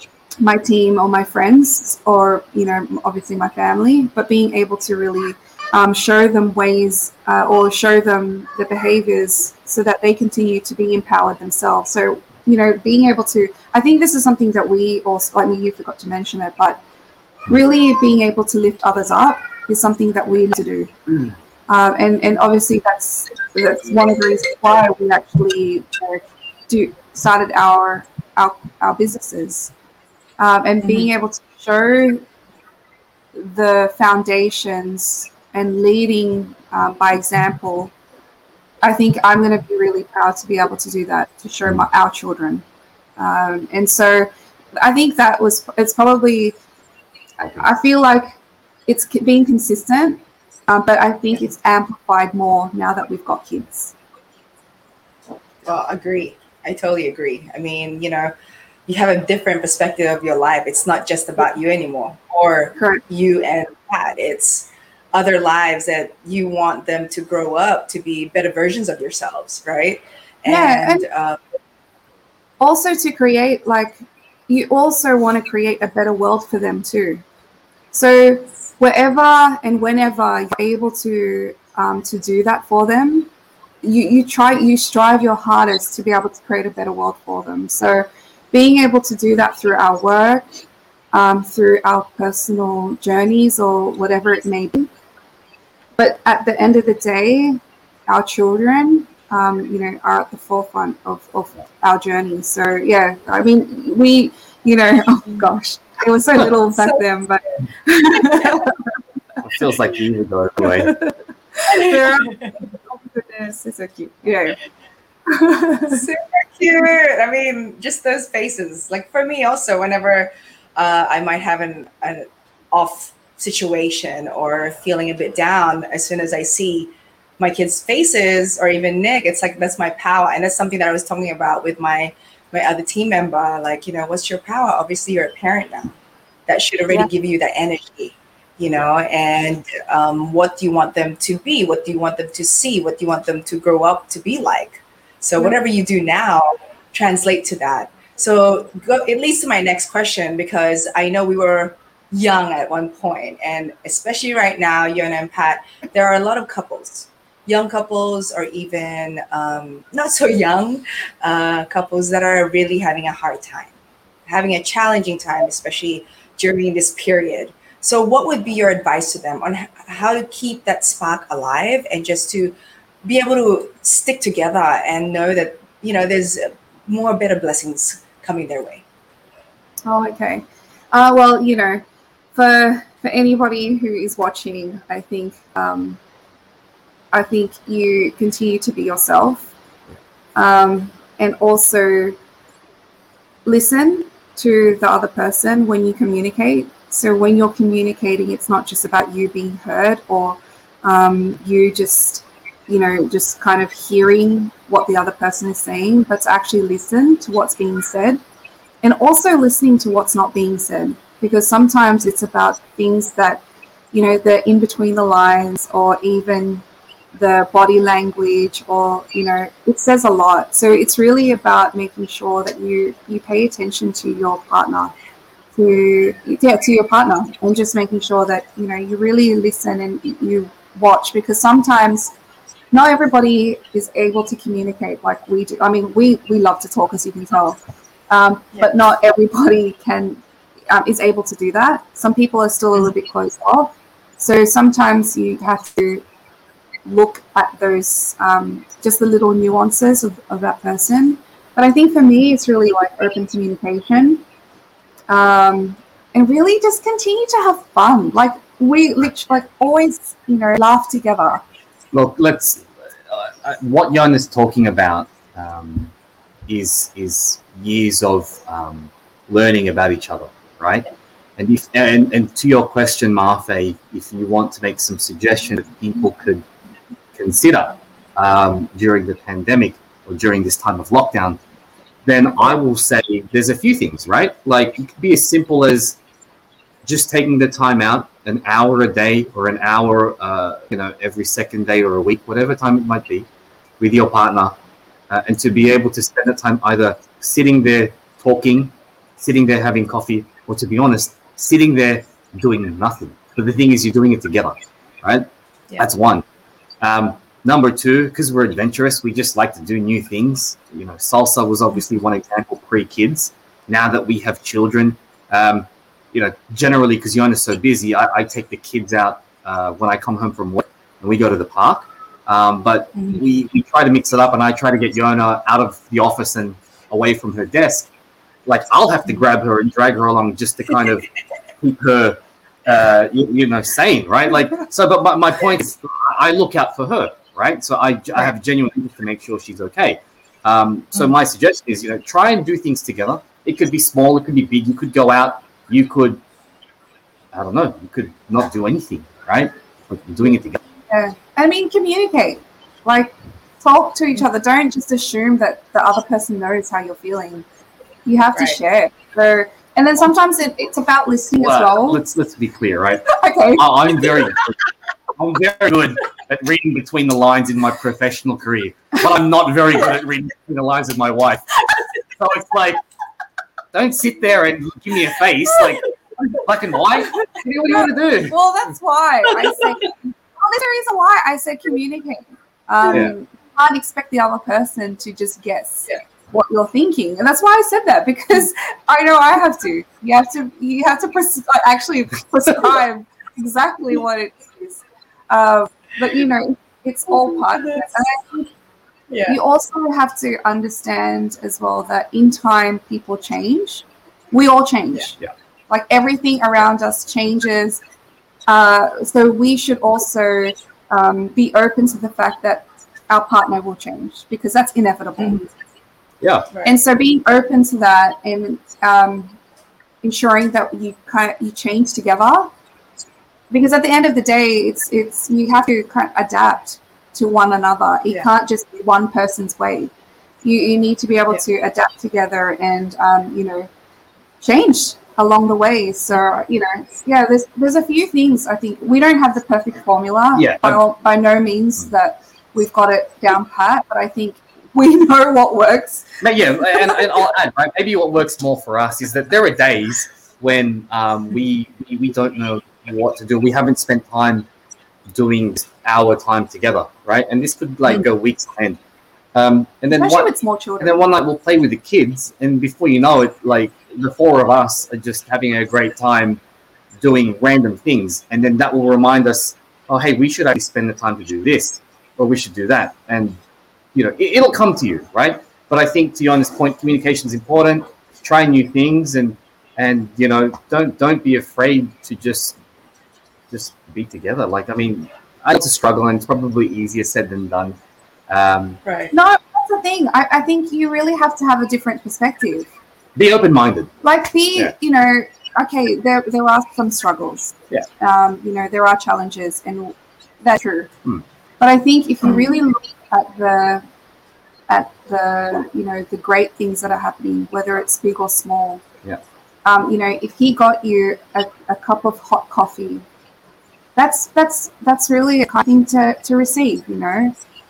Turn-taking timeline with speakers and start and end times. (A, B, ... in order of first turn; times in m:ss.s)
0:00.4-0:16.8 A
0:17.5-0:29.7 A
0:30.4-0:32.2 A
0:33.3-0:37.9 A
0:38.8-0:42.6 A
0:43.2-0:46.5 A
0:47.4-0:53.9 A
0:55.6-0:58.3 B
0:58.9-1:11.4 B
1:02.8-1:03.0 A
1:10.4-1:11.0 A
1:12.6-1:17.2 A
1:17.9-1:23.3 A
1:23.8-1:34.9 A
1:36.0-1:48.7 A
1:49.4-1:50.9 C
1:50.6-1:51.1 A
1:51.6-1:54.6 A
1:51.7-1:52.5 B
1:55.3-1:56.0 A
1:55.9-2:15.9 B
2:16.5-2:43.7 B
2:44.3-2:58.8 B
2:59.9-3:01.8 A
3:02.4-3:06.0 A
3:07.1-3:09.5 A
3:10.4-3:12.2 A
3:13.4-3:28.2 A
3:28.8-3:44.9 A
3:45.6-3:52.1 A
3:52.7-3:57.6 A
3:58.1-4:06.0 A
4:06.8-4:14.2 A
4:15.1-4:21.4 A
4:21.9-4:25.9 C
4:26.5-4:30.9 C
4:31.4-4:36.4 C
4:37.1-4:41.4 C
4:42.0-4:46.0 C
4:46.8-4:53.3 C
4:53.8-4:54.5 C
4:55.1-5:06.2 C
5:06.8-5:27.9 C
5:28.4-5:31.1 C
5:31.6-5:46.2 C
5:47.3-5:50.6 C
5:50.9-5:57.4 A
5:58.1-6:02.0 A
6:01.4-6:04.6 C
6:03.1-6:03.7 A
6:05.2-6:11.5 C
6:12.2-6:12.8 C
6:13.7-6:15.9 C
6:16.4-6:18.4 C
6:18.2-6:38.5 A
6:22.9-6:23.1 C
6:37.4-6:37.9 B
6:39.1-6:39.4 B
6:39.3-6:45.1 A
6:45.7-6:47.8 A
6:48.5-6:55.5 A
6:56.2-6:56.5 C
6:56.6-6:59.4 A
7:00.0-7:02.5 A
7:03.5-7:09.9 A
7:10.4-7:13.7 A
7:14.4-7:27.1 A
7:20.4-7:20.8 C
7:26.2-7:34.5 C
7:35.1-7:38.8 C
7:39.3-7:46.4 C
7:39.9-7:41.0 A
7:47.0-7:53.4 C
7:53.9-8:02.6 C
8:03.5-8:07.8 C
8:08.3-8:08.8 C
8:08.8-8:09.1 B
8:09.1-8:12.7 A
8:13.2-8:13.9 C
8:14.0-8:20.9 A
8:21.6-8:23.8 A
8:24.7-8:28.8 A
8:29.6-8:33.0 A
8:34.0-8:37.3 A